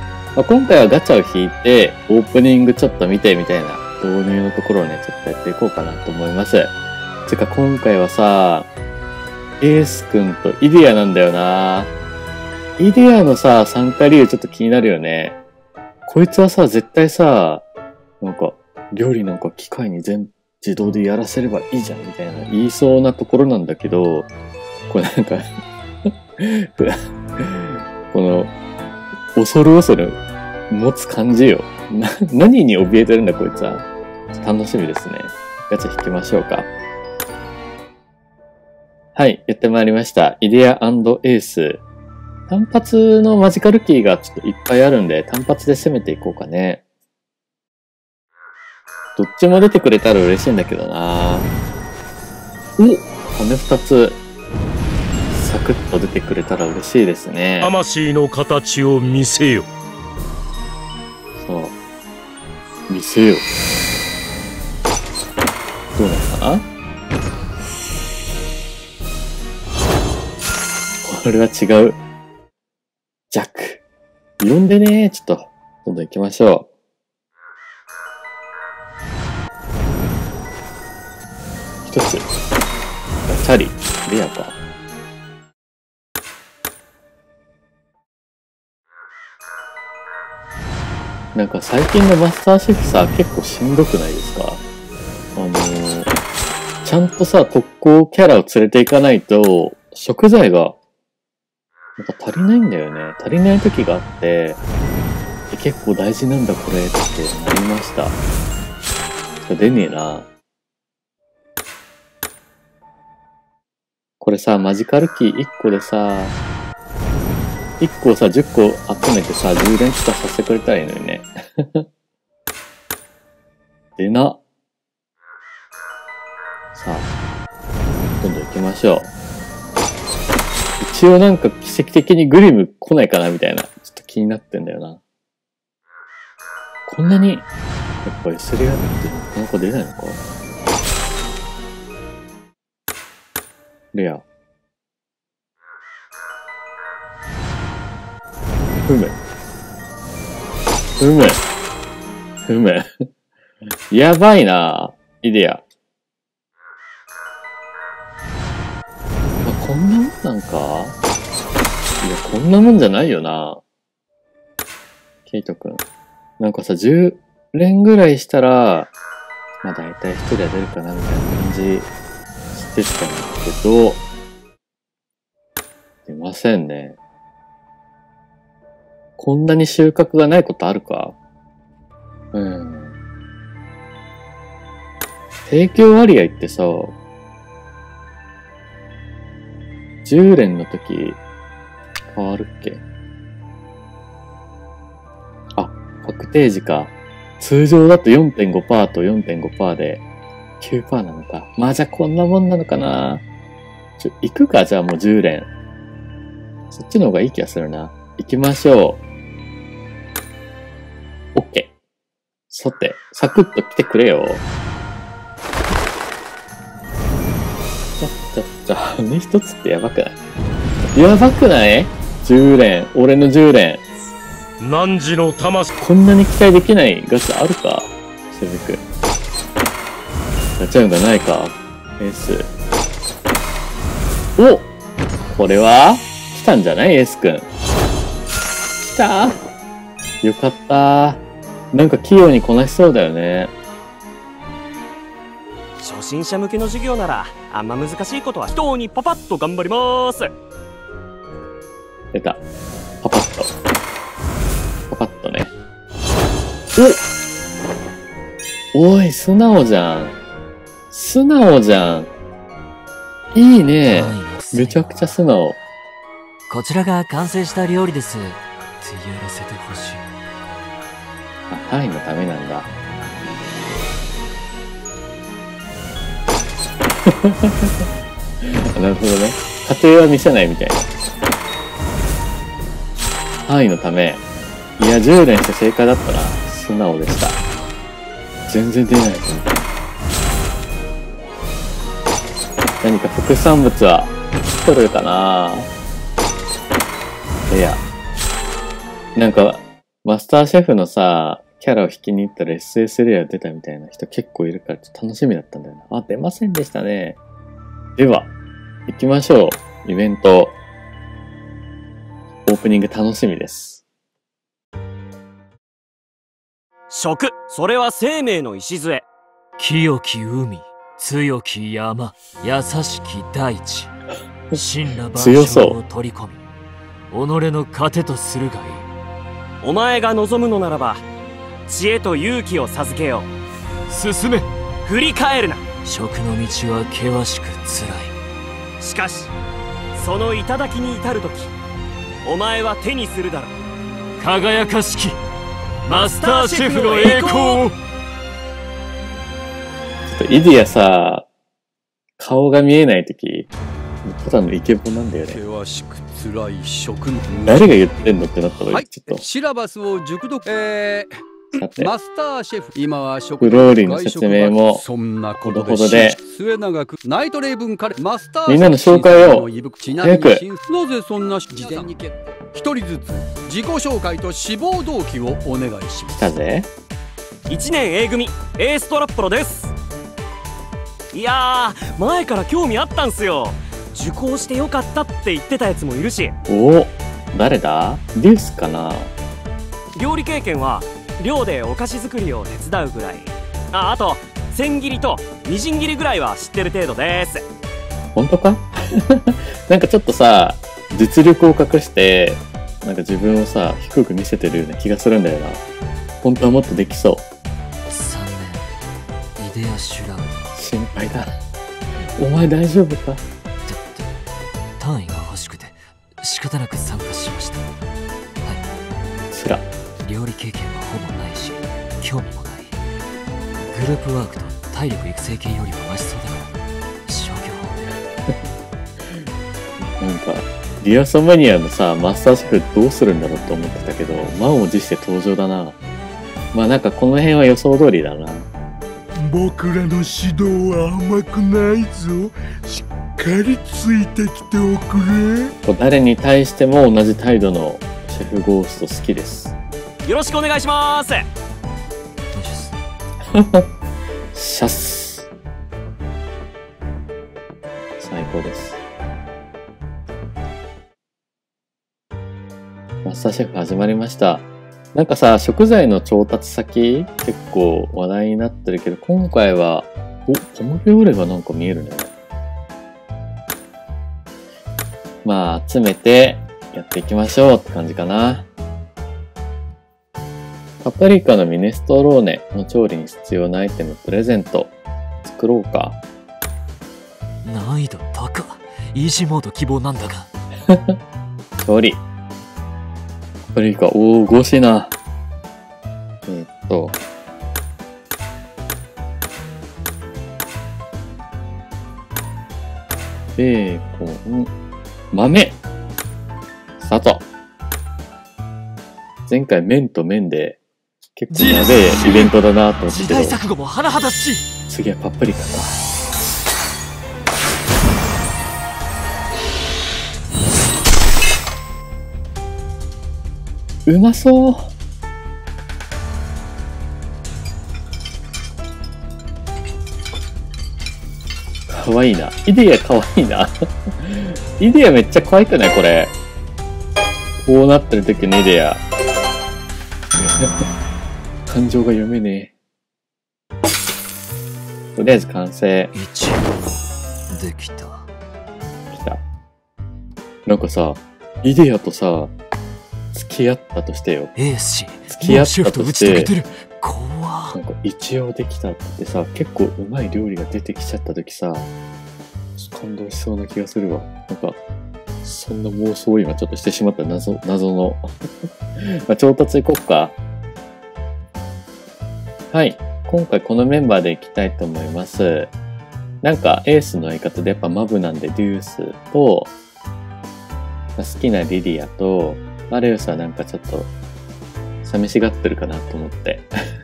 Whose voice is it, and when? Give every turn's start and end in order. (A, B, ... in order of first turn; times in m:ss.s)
0:00.4-0:06.7 A
0:07.2-0:08.7 A
0:09.6-0:11.9 A
0:12.8-0:15.4 A
0:16.0-0:17.6 A
0:18.2-0:24.3 A
0:24.9-0:25.4 A
0:26.4-0:28.5 A
0:29.3-0:36.7 A
0:39.2-0:41.8 A
0:42.5-0:46.8 A
0:49.2-0:51.5 A
0:52.8-0:54.2 A
0:55.3-0:57.7 A
0:57.6-0:59.7 B
1:01.4-1:01.8 A
1:02.9-1:03.5 A
1:06.0-1:06.7 A
1:11.0-1:12.0 A
1:13.3-1:13.8 A
1:14.4-1:16.7 A
1:21.8-1:22.3 A
1:23.3-1:24.6 A
1:31.3-1:34.6 A
1:35.4-1:36.1 A
1:36.8-1:40.8 A
1:42.0-1:44.6 A
1:45.5-1:48.2 A
1:49.4-1:50.3 A
1:54.2-1:56.3 A
1:57.8-2:01.8 A
2:04.0-2:04.4 A
2:06.7-2:07.1 A
2:08.2-2:09.1 A
2:10.8-2:15.0 A
2:16.9-2:17.5 A
2:18.0-2:20.2 A
2:23.9-2:24.2 A
2:28.9-2:29.2 A
2:31.0-2:31.4 A
2:32.5-2:32.8 A
2:33.9-2:35.6 A
2:39.4-2:41.0 A
2:42.0-2:43.6 A
2:45.2-2:45.8 A
2:46.4-2:48.9 A
2:49.6-2:51.9 A
2:52.5-2:54.0 A
2:56.0-2:57.0 A
2:59.2-3:01.2 A
3:02.3-3:02.9 A
3:05.4-3:06.9 A
3:10.0-3:11.2 A
3:12.1-3:12.8 A
3:15.6-3:20.0 A
3:20.6-3:23.2 A
3:24.0-3:25.5 A
3:26.7-3:29.0 A
3:31.3-3:31.7 A
3:32.5-3:34.4 A
3:38.0-3:40.2 A
3:40.9-3:43.8 A
3:44.6-3:45.7 B
3:45.8-3:48.8 A
3:50.6-3:52.5 A
3:54.4-3:54.7 A
3:55.3-3:57.5 A
3:58.8-3:59.4 A
4:00.2-4:03.5 A
4:05.8-4:10.3 C
4:12.1-4:12.4 A
4:13.0-4:13.5 A
4:14.9-4:15.5 A
4:18.7-4:20.2 A
4:20.9-4:22.1 A
4:23.3-4:25.6 A
4:23.9-4:25.1 D
4:26.5-4:30.1 D
4:31.5-4:32.7 A
4:37.0-4:37.8 A
4:38.4-4:40.9 A
4:43.4-4:44.2 A
4:44.8-4:47.4 A
4:48.5-4:49.7 A
4:52.8-4:55.7 A
4:57.5-4:57.8 A
4:59.2-5:07.2 A
5:08.0-5:08.3 A
5:08.9-5:10.6 A
5:12.4-5:13.8 A
5:16.9-5:19.0 C
5:19.6-5:24.0 D
5:24.5-5:26.4 D
5:25.1-5:25.8 A
5:27.1-5:28.9 D
5:29.6-5:31.0 C
5:31.7-5:33.3 C
5:33.9-5:34.5 D
5:34.8-5:35.6 C
5:35.8-5:38.2 D
5:38.8-5:39.3 C
5:39.9-5:41.5 C
5:42.2-5:43.5 C
5:44.2-5:45.2 D
5:45.9-5:47.7 C
5:45.9-5:47.7 D
5:50.0-5:51.3 A
5:52.2-5:53.5 A
5:54.0-5:55.4 A
5:55.3-5:58.1 E
5:57.4-5:59.2 A
5:58.7-6:16.3 E
6:01.5-6:01.9 A
6:03.4-6:04.8 A
6:05.4-6:06.2 A
6:08.4-6:10.4 A
6:16.1-6:16.7 A
6:17.5-6:19.7 C
6:21.1-6:26.3 C
6:26.5-6:29.1 A
6:29.9-6:37.4 C
6:38.1-6:45.6 A
6:46.2-6:47.2 A
6:47.9-6:48.7 D
6:49.4-6:50.5 D
6:50.5-6:51.3 A
6:52.2-6:53.2 A
6:53.6-6:54.1 D
6:54.8-6:57.7 D
6:59.3-6:59.7 A
7:00.0-7:02.8 D
7:03.7-7:08.0 D
7:09.8-7:15.8 A
7:16.5-7:18.5 A
7:19.2-7:25.5 F
7:25.6-7:29.5 A
7:30.0-7:31.2 C
7:32.3-7:32.8 D
7:33.3-7:33.6 A
7:34.3-7:35.3 A
7:38.0-7:38.8 A
7:43.0-7:52.1 A
7:55.2-7:58.5 A
8:00.8-8:06.0 A
8:07.4-8:10.3 D
8:10.7-8:11.0 A
8:11.6-8:12.0 A
8:13.4-8:14.9 A
8:16.2-8:17.0 A
8:23.4-8:24.5 A
8:25.1-8:25.6 A
8:26.8-8:27.2 A
8:29.3-8:30.6 A
8:31.2-8:33.4 A
8:31.3-8:32.3 D
8:32.9-8:34.5 D
8:34.7-8:35.7 A
8:43.9-8:44.7 A
8:51.7-8:56.1 A
8:57.4-8:58.8 A
9:00.2-9:00.6 A
9:01.5-9:02.5 A
9:05.0-9:05.9 A
9:05.9-9:08.1 D
9:08.9-9:09.2 A
9:10.4-9:12.3 A
9:13.1-9:14.3 A
9:14.3-9:17.6 D
9:15.1-9:16.3 A
9:17.5-9:21.7 A
9:22.6-9:24.6 A
9:25.2-9:28.1 A
9:28.8-9:30.2 A
9:32.5-9:35.5 A
9:36.2-9:39.5 A
9:41.0-9:43.9 A
9:44.8-9:46.5 A